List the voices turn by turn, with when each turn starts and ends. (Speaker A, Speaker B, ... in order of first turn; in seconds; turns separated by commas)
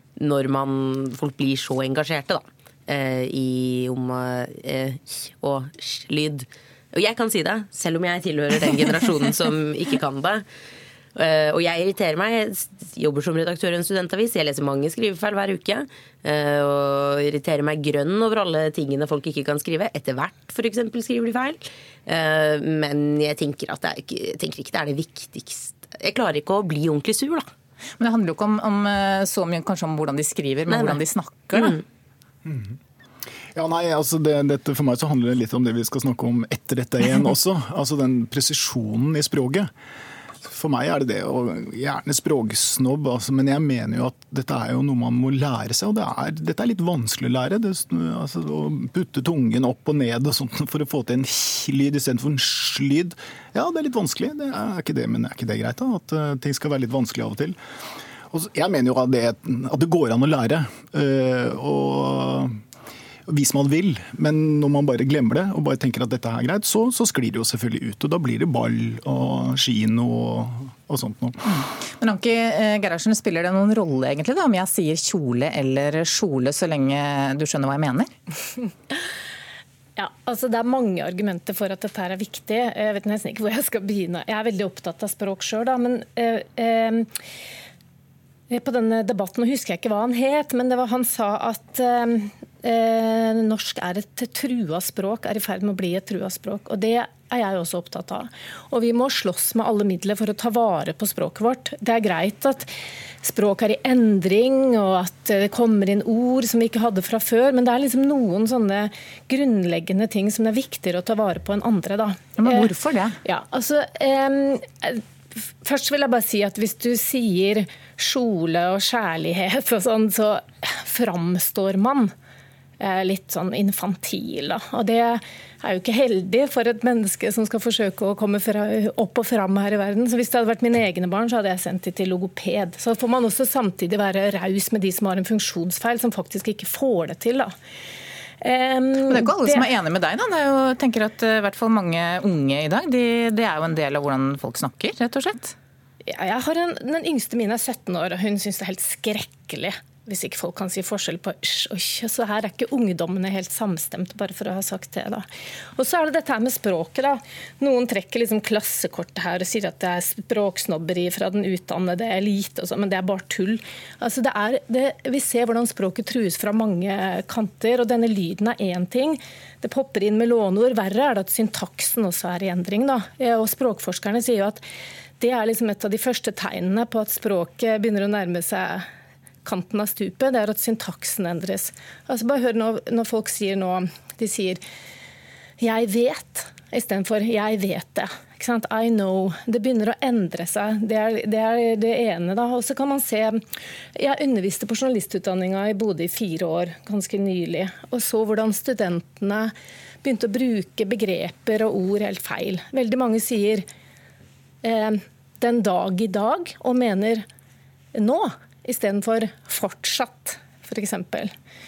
Speaker A: 0.2-10.4, Speaker A: 11.2-27.5, Speaker B: 28.0-31.8, Speaker A: 30.7-31.0, Speaker A: 31.5-31.8, Speaker C: 32.5-32.8, Speaker C: 33.5-39.7, Speaker C: 40.5-57.6, Speaker C: 58.3-62.5, Speaker C: 63.3-71.5, Speaker B: 71.5-78.1, Speaker D: 80.0-87.1, Speaker D: 88.5-102.7, Speaker D: 103.2-112.7, Speaker B: 112.4-113.2, Speaker D: 113.2-115.0, Speaker D: 115.6-122.1, Speaker D: 122.8-137.5, Speaker D: 138.4-139.6, Speaker B: 139.1-145.6, Speaker D: 146.0-155.2, Speaker D: 155.8-174.6, Speaker D: 175.2-178.9, Speaker D: 179.4-184.6, Speaker D: 185.6-193.4, Speaker D: 194.0-199.5, Speaker D: 200.0-203.6, Speaker D: 204.6-207.2, Speaker D: 207.9-211.3